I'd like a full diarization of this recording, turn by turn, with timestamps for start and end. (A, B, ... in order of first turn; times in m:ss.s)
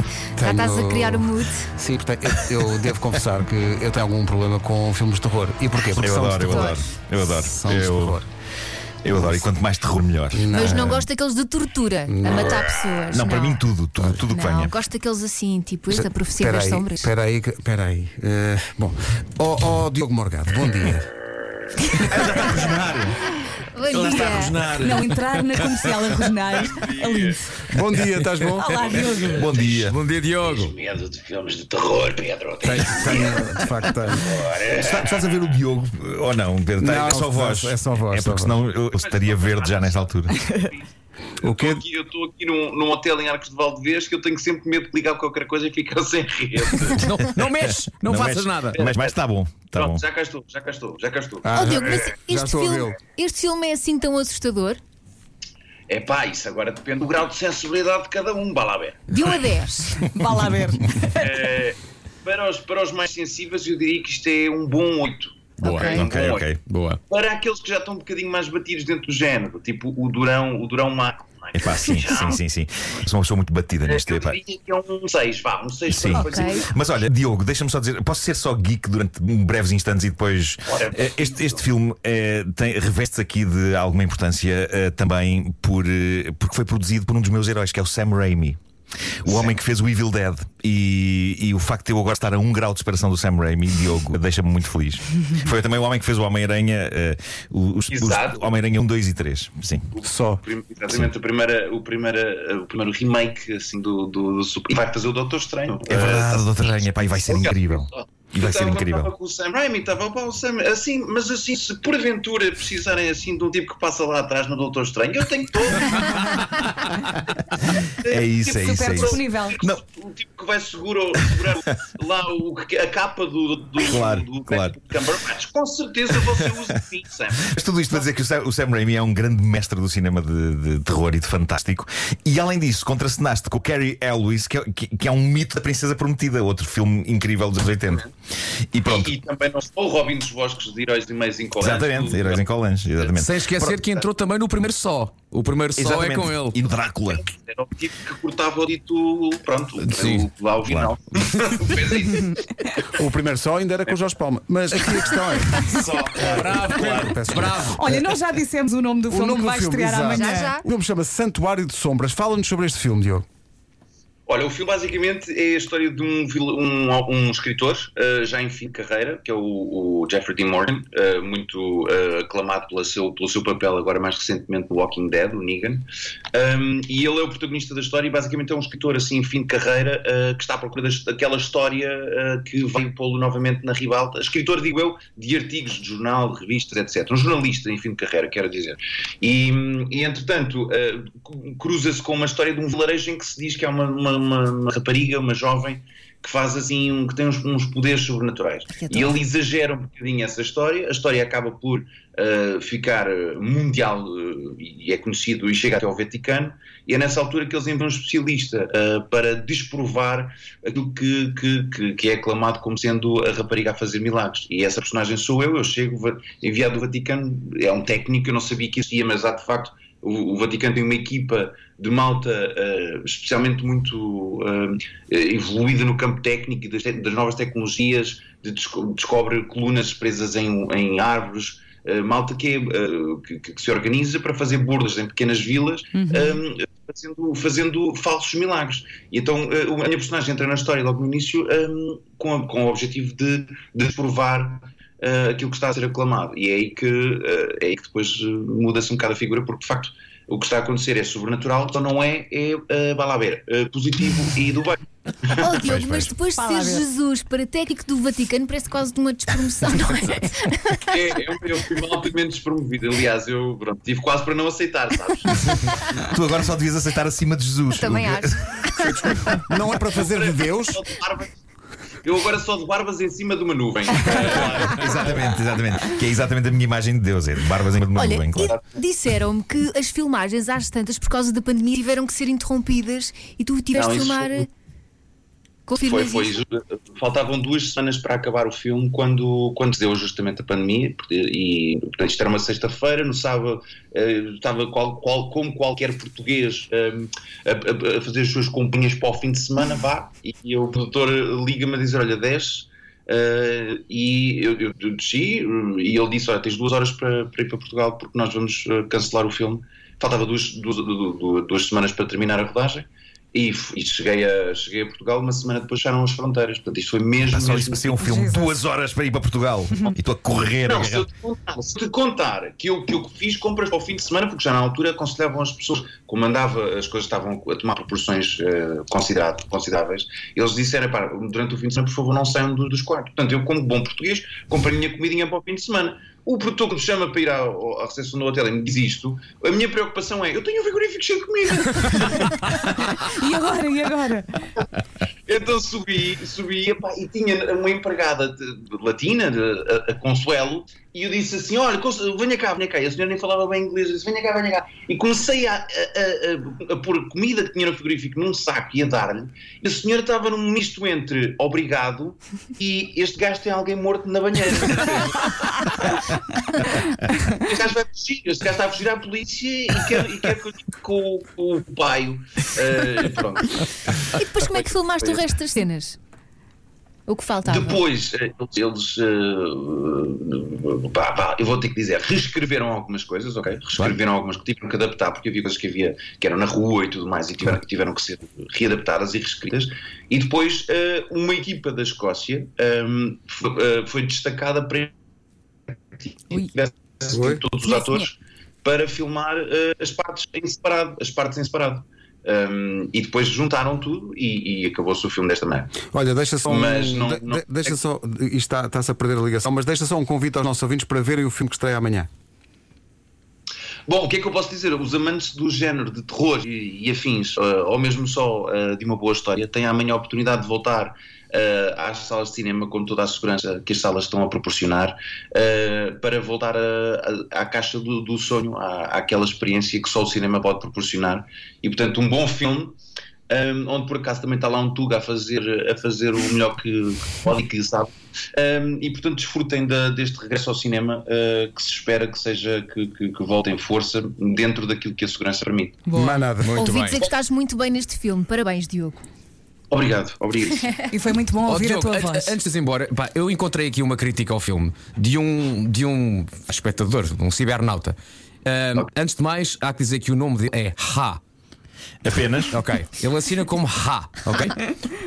0:00.4-0:06.9 A
0:00.4-0:01.6 B
0:05.9-0:08.2 C
0:06.4-0:06.8 B
0:07.4-0:08.2 A
0:09.0-0:11.0 C
0:09.1-0:09.4 A
0:10.3-0:11.0 A
0:10.5-0:17.1 B
0:12.1-0:12.5 A
0:13.0-0:14.7 C
0:15.9-0:21.1 A
0:22.0-0:23.1 C
0:23.7-0:24.7 B
0:23.9-0:25.6 C
0:24.8-0:27.6 D
0:26.7-0:27.4 E
0:27.7-0:28.6 A
0:28.6-0:30.7 F
0:28.6-0:35.4 E
0:28.8-0:29.4 D
0:29.2-0:30.0 C
0:32.6-0:34.4 A
0:34.6-0:40.4 C
0:36.8-0:38.5 A
0:38.9-0:47.1 E
0:41.4-0:41.8 A
0:46.9-0:48.8 F
0:47.6-0:50.0 C
0:48.7-0:49.2 E
0:49.7-0:52.1 E
0:51.4-0:53.0 A
0:51.5-0:54.8 B
0:55.9-0:59.3 E
0:59.1-1:00.0 B
1:00.0-1:01.4 D
1:01.2-1:06.5 E
1:05.6-1:06.0 F
1:05.6-1:06.0 B
1:06.0-1:06.6 C
1:06.7-1:07.0 F
1:07.1-1:12.4 E
1:11.5-1:14.4 C
1:13.8-1:16.8 E
1:15.9-1:28.6 C
1:16.1-1:16.6 B
1:20.7-1:21.7 E
1:29.2-1:39.8 C
1:29.2-1:29.5 E
1:37.9-1:38.6 E
1:39.9-1:56.5 E
1:40.0-1:40.4 A
1:45.9-1:49.1 C
1:57.8-2:08.1 E
1:58.1-1:59.8 C
1:58.5-1:59.6 D
2:03.8-2:04.7 C
2:07.5-2:18.1 C
2:18.7-2:19.1 C
2:18.8-2:23.2 E
2:21.6-2:23.8 C
2:23.2-2:26.6 F
2:23.7-2:24.1 E
2:25.8-2:27.2 C
2:27.1-2:32.7 E
2:29.8-2:30.3 F
2:30.7-2:30.9 C
2:32.9-2:38.1 A
2:35.6-2:37.2 C
2:36.2-2:37.8 F
2:37.7-2:40.6 D
2:39.1-2:43.2 A
2:40.1-2:40.6 B
2:44.3-4:14.8 E
3:18.8-3:19.1 B
3:55.9-3:56.4 D
4:15.3-4:15.6 E
4:15.4-4:21.0 B
4:15.6-4:16.1 C
4:16.3-4:16.9 D
4:20.9-4:25.8 E
4:26.0-4:29.2 C
4:27.7-4:29.4 B
4:29.5-4:30.8 A
4:30.0-4:31.3 E
4:32.0-4:34.8 E
4:34.3-4:38.6 C
4:37.9-4:44.5 B
4:38.4-4:38.8 E
4:43.7-4:44.5 E
4:45.7-4:46.4 B
4:45.8-5:17.9 E
5:17.2-5:21.1 C
5:18.0-5:18.6 D
5:19.7-5:20.0 D
5:20.6-5:42.5 E
5:43.0-5:44.4 D
5:45.3-6:15.3 E
6:14.1-6:16.0 B
6:17.1-6:17.8 B
6:17.4-6:34.9 E
6:36.0-6:45.7 E
6:37.1-6:37.4 A
6:37.6-6:38.1 B
6:45.9-6:52.1 A
6:46.4-6:47.8 E
6:53.9-7:12.8 E
7:13.3-7:25.8 E
7:25.9-7:26.2 D
7:25.9-7:26.6 A
7:26.4-7:27.0 F
7:26.5-7:29.0 B
7:29.7-7:30.7 E
7:30.9-7:32.4 D
7:31.4-7:41.2 F
7:42.0-7:42.5 C
7:42.5-7:44.7 F